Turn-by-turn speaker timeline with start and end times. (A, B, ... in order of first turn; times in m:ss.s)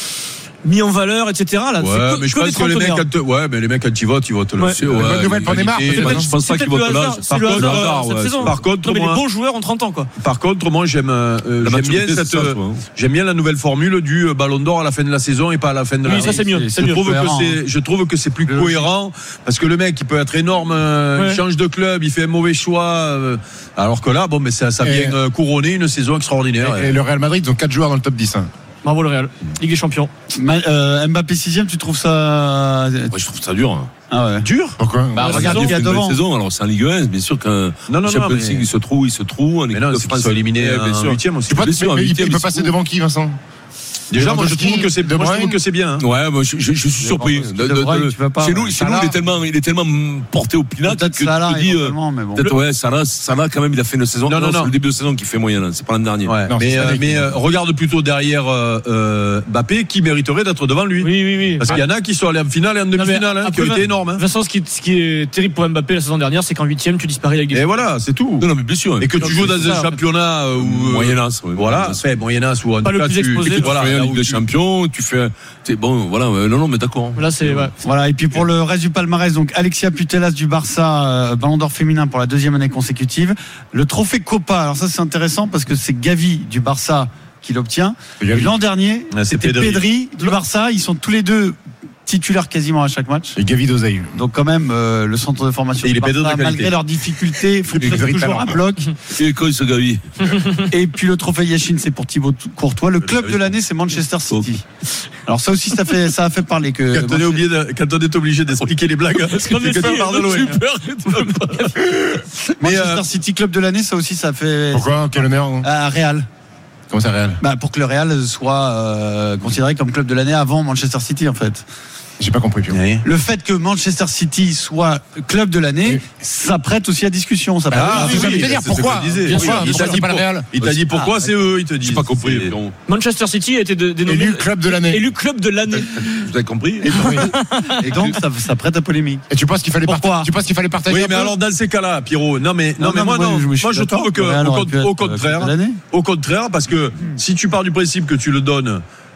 0:00.6-0:03.1 A
0:01.8-0:06.2 B
0:04.6-0:04.8 A
0:04.8-0:08.6 C
0:04.9-0:06.3 D
0:06.0-0:10.1 A
0:07.3-0:09.2 B
0:10.2-0:27.0 B
0:11.6-0:12.8 C
0:16.0-0:17.1 A
0:16.1-0:17.6 E
0:18.5-0:18.9 E
0:21.2-0:21.4 A
0:24.8-0:25.2 D
0:26.6-0:28.5 D
0:28.8-0:30.1 A
0:30.3-0:33.2 E
0:33.1-0:33.9 C
0:34.1-0:34.5 E
0:34.4-0:34.8 B
0:34.8-0:35.7 D
0:35.1-0:36.2 E
0:35.2-0:42.7 C
0:37.9-0:38.7 B
0:39.7-0:41.7 B
0:41.5-0:43.4 D
0:44.1-0:46.0 B
0:44.1-0:45.6 D
0:46.0-0:56.3 C
0:47.0-0:49.2 E
0:50.8-0:52.6 E
0:54.3-0:54.7 B
0:56.2-1:04.2 B
0:56.5-0:57.4 D
1:01.0-1:01.8 A
1:02.9-1:07.9 A
1:07.5-1:08.5 B
1:08.4-1:09.8 C
1:09.0-1:14.4 B
1:09.2-1:10.0 A
1:10.5-1:12.0 C
1:12.8-1:13.7 A
1:13.4-1:17.7 C
1:17.2-1:17.8 A
1:17.8-1:33.4 E
1:28.2-1:28.5 D
1:29.1-1:29.8 B
1:33.4-1:34.2 D
1:34.1-1:38.9 E
1:35.8-1:36.7 B
1:37.7-1:38.6 D
1:39.1-1:40.4 C
1:40.7-1:44.6 E
1:43.2-1:43.5 C
1:45.2-1:47.4 E
1:46.9-1:50.5 B
1:49.2-1:51.7 C
1:49.5-1:52.4 A
1:52.6-1:53.0 B
1:52.6-1:54.9 E
1:54.7-1:55.7 D
1:55.6-1:56.3 E
1:56.9-1:57.4 D
1:57.4-2:01.7 E
2:02.2-2:02.8 D
2:02.7-2:03.0 B
2:03.0-2:08.6 E
2:07.7-2:10.4 D
2:07.7-2:12.6 B
2:09.3-2:10.0 A
2:10.9-2:11.3 E
2:11.8-2:12.7 C
2:12.9-2:16.1 A
2:14.0-2:15.0 D
2:16.0-2:17.1 C
2:16.9-2:17.3 D
2:16.9-2:19.2 E
2:17.1-2:17.9 A
2:19.3-2:21.3 D
2:19.8-2:20.3 E
2:20.9-2:28.8 B
2:22.8-2:25.8 E